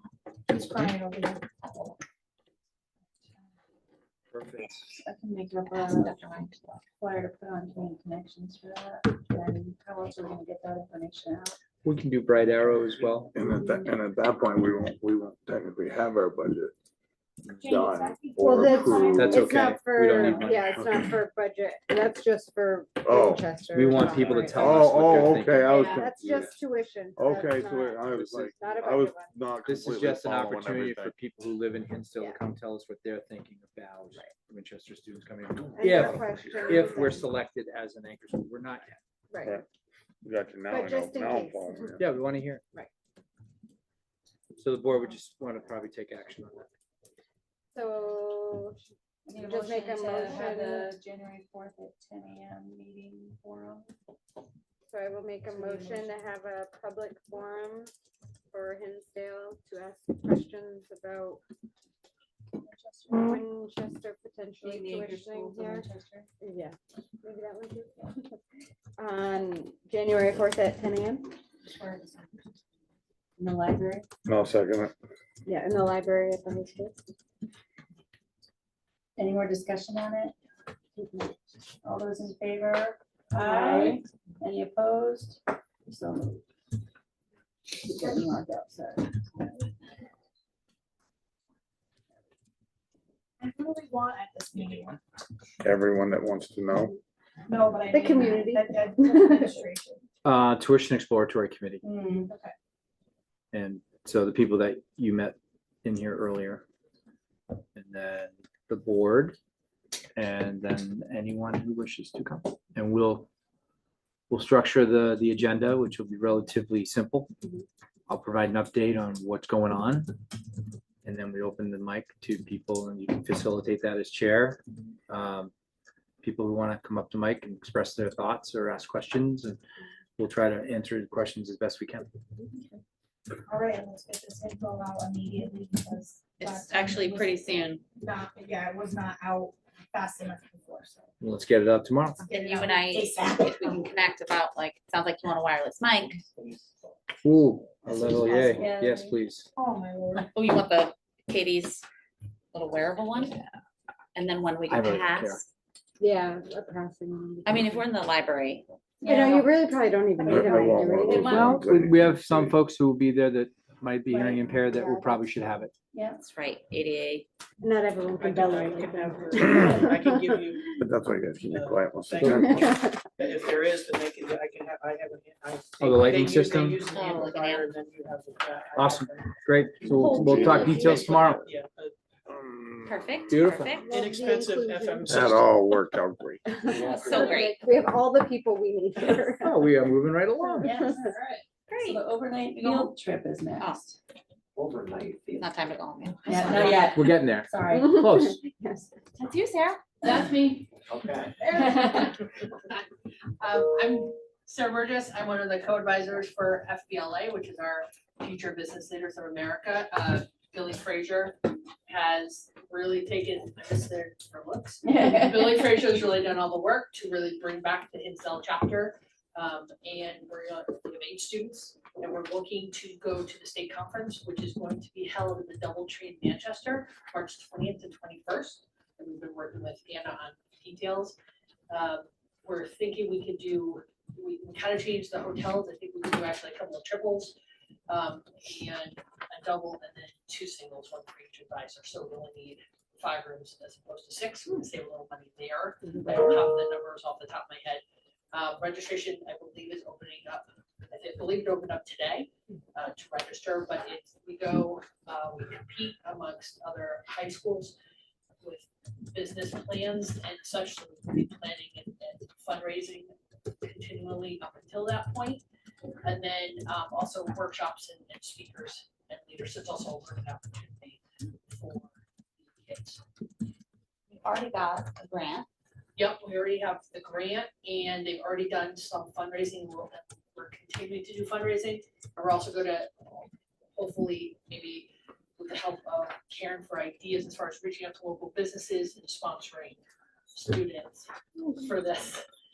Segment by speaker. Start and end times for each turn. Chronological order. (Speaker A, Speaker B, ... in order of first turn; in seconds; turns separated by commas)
Speaker A: 0.5-1.4, Speaker B: 4.3-5.0, Speaker C: 4.9-6.2, Speaker D: 5.8-6.8, Speaker C: 6.9-11.6, Speaker B: 11.8-13.3, Speaker E: 13.3-16.7, Speaker C: 13.5-13.8, Speaker E: 17.6-19.4, Speaker A: 17.6-19.4, Speaker F: 18.4-29.3, Speaker B: 19.1-21.0, Speaker E: 23.0-23.4, Speaker B: 23.7-25.7, Speaker E: 24.5-26.6, Speaker E: 27.1-31.1, Speaker B: 28.1-28.5, Speaker B: 29.6-39.0, Speaker F: 35.8-37.2, Speaker F: 39.3-39.6, Speaker E: 40.2-42.0, Speaker F: 40.7-42.0, Speaker B: 42.0-42.6, Speaker B: 44.6-46.7, Speaker F: 47.7-48.8, Speaker C: 49.3-53.9, Speaker F: 49.4-51.0, Speaker F: 54.9-57.9, Speaker C: 55.4-56.3, Speaker F: 58.5-61.4, Speaker C: 62.6-63.4, Speaker F: 63.1-65.9, Speaker C: 64.6-66.3, Speaker F: 66.4-68.2, Speaker F: 69.0-71.3, Speaker C: 71.6-72.4, Speaker C: 73.4-74.1, Speaker E: 74.2-74.9, Speaker F: 75.5-77.0, Speaker C: 79.2-80.3, Speaker C: 81.0-81.3, Speaker C: 81.8-86.4, Speaker A: 83.3-84.0, Speaker C: 87.7-89.7, Speaker A: 93.4-95.0, Speaker E: 95.6-97.0, Speaker A: 97.5-100.0, Speaker F: 97.9-99.5, Speaker B: 100.2-101.9, Speaker C: 101.8-102.3, Speaker A: 102.1-102.5, Speaker B: 103.5-106.6, Speaker B: 107.8-109.4, Speaker B: 110.2-113.3, Speaker B: 114.3-117.3, Speaker B: 118.1-120.1, Speaker B: 121.0-125.5, Speaker B: 126.2-129.6, Speaker B: 130.2-132.1, Speaker A: 133.5-137.3, Speaker D: 136.4-137.8, Speaker A: 138.0-141.1, Speaker B: 141.2-142.2, Speaker D: 142.2-146.2, Speaker A: 142.3-143.9, Speaker B: 147.2-149.5, Speaker C: 148.4-149.2, Speaker A: 149.6-150.2, Speaker D: 150.3-151.8, Speaker D: 152.5-153.5, Speaker D: 154.2-155.5, Speaker B: 154.7-155.4, Speaker F: 156.0-157.9, Speaker D: 157.4-158.7, Speaker C: 159.0-159.6, Speaker F: 159.1-161.5, Speaker C: 160.2-160.6, Speaker E: 160.2-162.6, Speaker B: 161.1-165.7, Speaker D: 161.2-161.4, Speaker F: 164.6-165.3, Speaker C: 165.9-166.2, Speaker D: 166.2-167.2, Speaker F: 167.6-170.4, Speaker G: 168.1-172.6, Speaker E: 170.8-172.7, Speaker B: 172.2-172.6, Speaker F: 172.2-173.1, Speaker G: 173.2-179.3, Speaker B: 175.8-176.8, Speaker D: 176.8-177.7, Speaker B: 178.8-181.5, Speaker E: 179.9-181.4, Speaker G: 180.0-181.9, Speaker D: 180.1-181.1, Speaker E: 182.3-183.4, Speaker D: 182.8-184.0, Speaker B: 183.3-183.9, Speaker F: 183.9-185.4, Speaker G: 183.9-185.4, Speaker E: 185.1-186.5, Speaker F: 186.4-189.6, Speaker D: 186.9-187.6, Speaker B: 189.4-190.8, Speaker F: 190.4-191.2, Speaker C: 190.6-194.0, Speaker D: 191.7-192.0, Speaker D: 192.6-192.9, Speaker D: 193.6-193.9, Speaker C: 194.6-195.6, Speaker D: 195.4-197.0, Speaker C: 196.2-198.0, Speaker B: 196.9-198.4, Speaker F: 197.7-198.9, Speaker D: 199.3-199.6, Speaker H: 200.0-200.7, Speaker H: 201.4-202.8, Speaker H: 203.4-231.2, Speaker C: 214.8-215.7, Speaker H: 231.7-237.3, Speaker H: 237.9-257.8, Speaker H: 258.4-265.4, Speaker H: 266.0-271.9, Speaker H: 272.5-273.0, Speaker D: 274.2-275.5, Speaker H: 275.9-289.8, Speaker H: 290.3-292.2